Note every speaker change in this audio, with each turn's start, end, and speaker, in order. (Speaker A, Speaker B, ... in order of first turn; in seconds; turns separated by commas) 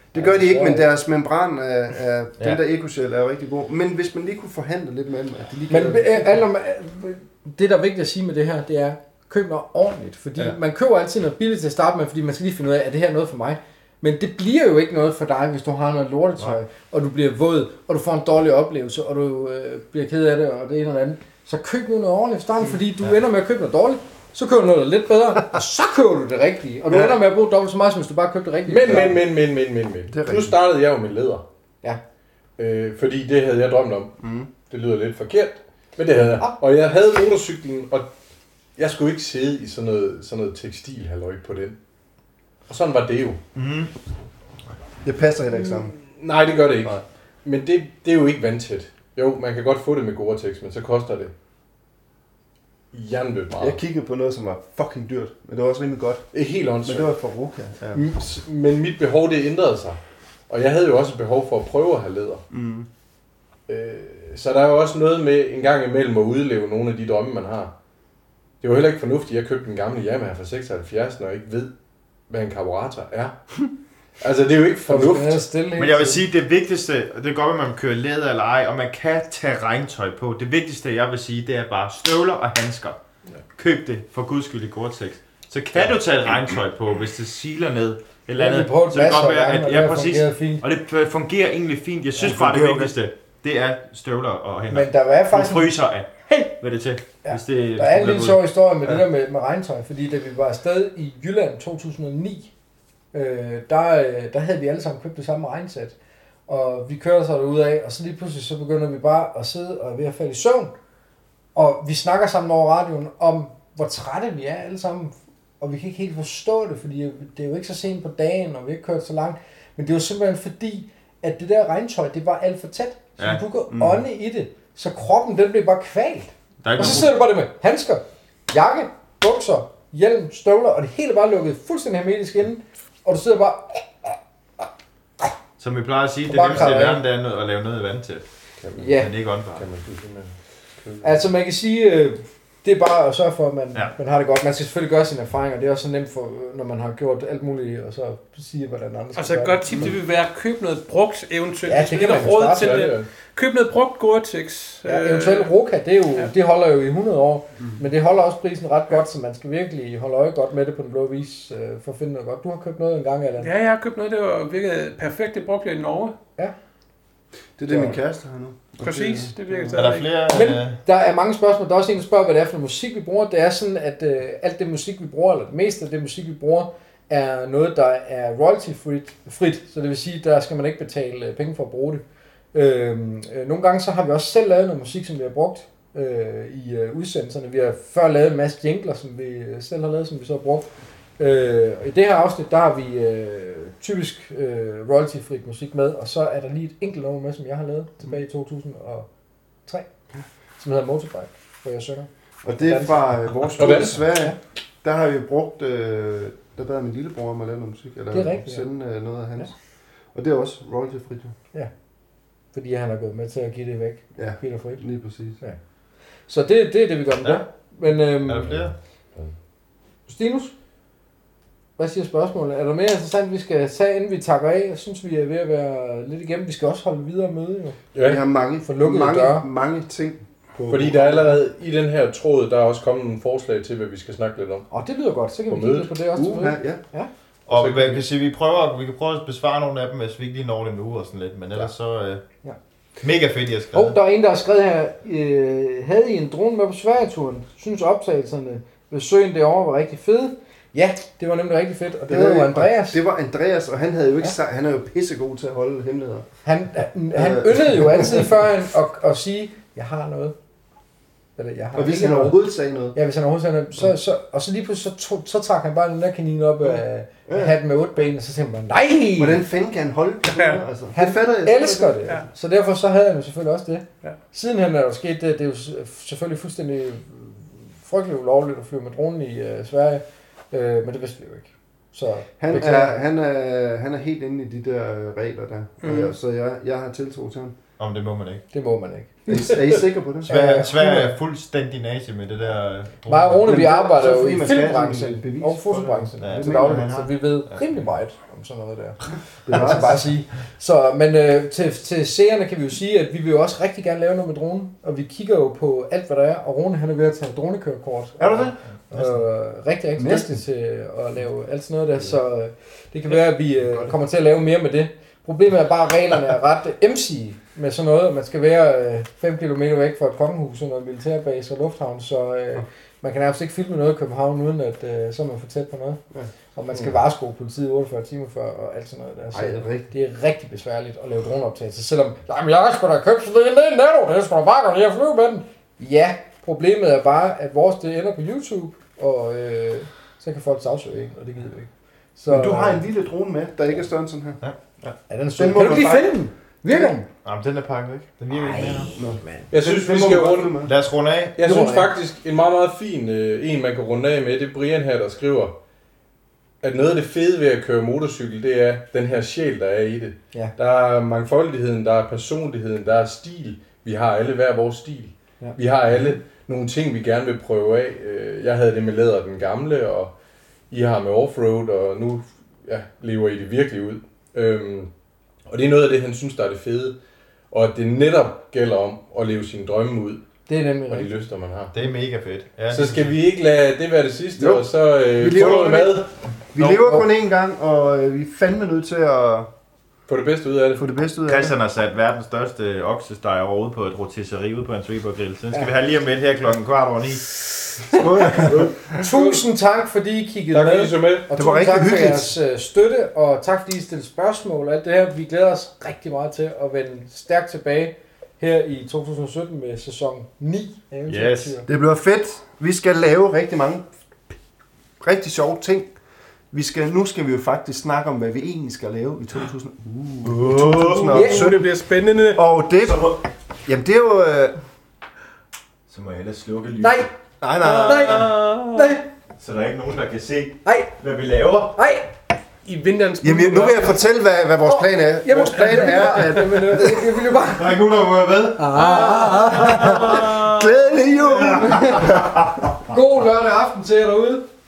Speaker A: 0.1-6.4, Speaker B: 0.1-0.8, Speaker B: 5.7-29.2, Speaker C: 28.7-31.4, Speaker A: 28.9-29.1, Speaker A: 30.1-30.6, Speaker C: 32.6-38.1, Speaker A: 34.2-34.5, Speaker C: 38.8-41.8, Speaker C: 42.7-43.4, Speaker D: 43.5-43.9, Speaker A: 45.0-45.9, Speaker C: 46.2-51.3, Speaker C: 52.9-53.8, Speaker A: 53.6-56.2, Speaker C: 56.3-57.1, Speaker A: 56.8-58.0, Speaker C: 57.9-62.4, Speaker A: 62.5-62.9, Speaker C: 63.7-67.7, Speaker C: 68.6-71.7, Speaker C: 72.3-73.4, Speaker C: 74.2-75.4, Speaker B: 74.9-76.2, Speaker D: 75.8-83.0, Speaker D: 83.5-99.0, Speaker B: 88.3-90.6, Speaker A: 92.2-93.0, Speaker B: 94.7-95.7, Speaker B: 97.2-102.5, Speaker B: 103.1-105.9, Speaker B: 106.5-110.7, Speaker B: 111.5-134.2, Speaker A: 123.7-124.0, Speaker D: 126.6-127.1, Speaker D: 135.6-138.2, Speaker B: 136.2-137.0, Speaker C: 138.6-141.2, Speaker B: 138.8-139.1, Speaker D: 138.9-139.6, Speaker B: 141.0-149.9, Speaker E: 149.1-155.5, Speaker B: 151.7-152.9, Speaker C: 152.4-153.1, Speaker B: 154.8-163.5, Speaker E: 163.4-166.1, Speaker A: 167.6-169.7, Speaker B: 167.7-168.0, Speaker E: 168.8-170.2, Speaker D: 169.7-170.8, Speaker B: 170.3-182.0, Speaker B: 182.5-199.1, Speaker B: 200.6-202.1, Speaker A: 202.4-209.5, Speaker B: 202.6-204.3, Speaker C: 203.6-204.1, Speaker B: 208.1-208.7, Speaker A: 210.1-211.3, Speaker B: 212.5-214.8, Speaker A: 214.2-215.4, Speaker B: 216.3-218.7, Speaker D: 218.3-218.7, Speaker B: 220.1-220.5, Speaker B: 221.8-227.8, Speaker C: 227.9-228.2, Speaker A: 228.0-231.4, Speaker B: 228.6-229.4, Speaker C: 230.7-234.7, Speaker B: 234.7-237.1, Speaker C: 235.5-235.9, Speaker A: 236.1-236.8, Speaker D: 237.5-242.2, Speaker C: 237.5-238.1, Speaker D: 243.0-243.9, Speaker B: 243.7-253.0, Speaker A: 252.1-256.3, Speaker B: 256.4-260.3, Speaker A: 257.1-258.3, Speaker B: 261.4-262.4, Speaker A: 261.7-262.9, Speaker B: 262.9-269.4, Speaker A: 267.3-267.5, Speaker A: 269.2-272.2, Speaker E: 270.2-270.6, Speaker B: 270.9-283.0, Speaker A: 282.4-287.6, Speaker D: 287.8-288.4, Speaker B: 288.5-289.7, Speaker A: 289.3-290.7, Speaker B: 290.2-291.1, Speaker D: 290.3-293.4, Speaker B: 293.1-326.0, Speaker A: 293.4-297.0, Speaker D: 296.2-297.6, Speaker A: 299.4-300.1, Speaker A: 308.2-309.1, Speaker A: 310.0-310.3, Speaker B: 326.5-342.8, Speaker A: 329.3-329.9, Speaker A: 342.3-344.4, Speaker B: 345.1-347.1, Speaker A: 345.4-347.0, Speaker D: 347.2-349.0, Speaker B: 348.3-349.5, Speaker A: 348.9-350.7, Speaker C: 349.5-350.6, Speaker D: 350.6-351.4, Speaker C: 351.4-355.5, Speaker B: 351.4-351.9, Speaker C: 356.6-370.1, Speaker C: 370.7-374.9, Speaker C: 375.5-376.9, Speaker C: 377.5-380.2, Speaker B: 380.5-381.1, Speaker C: 380.9-381.8, Speaker D: 381.7-383.1, Speaker C: 382.7-386.1, Speaker A: 384.4-389.5, Speaker D: 386.6-387.0, Speaker C: 390.1-390.8, Speaker A: 390.8-391.5, Speaker D: 391.2-397.3, Speaker B: 397.7-411.7, Speaker A: 397.9-399.1, Speaker C: 400.5-401.2, Speaker A: 401.3-402.4, Speaker D: 411.1-411.6, Speaker A: 411.6-413.8, Speaker A: 415.0-415.9, Speaker A: 416.5-421.6, Speaker D: 420.2-421.5, Speaker E: 421.0-422.4, Speaker B: 421.1-421.5, Speaker A: 422.3-424.6, Speaker D: 422.8-423.2, Speaker D: 425.9-427.1, Speaker B: 426.8-427.1, Speaker A: 427.4-428.3, Speaker B: 427.6-429.1, Speaker D: 427.6-431.8, Speaker B: 430.6-430.9, Speaker B: 431.7-432.1, Speaker E: 432.6-434.0, Speaker A: 433.2-437.1, Speaker B: 434.6-437.8, Speaker D: 437.5-440.5, Speaker B: 438.6-440.3, Speaker E: 438.8-440.4, Speaker A: 439.6-442.3, Speaker D: 441.3-442.2, Speaker B: 441.5-442.2, Speaker B: 442.9-444.5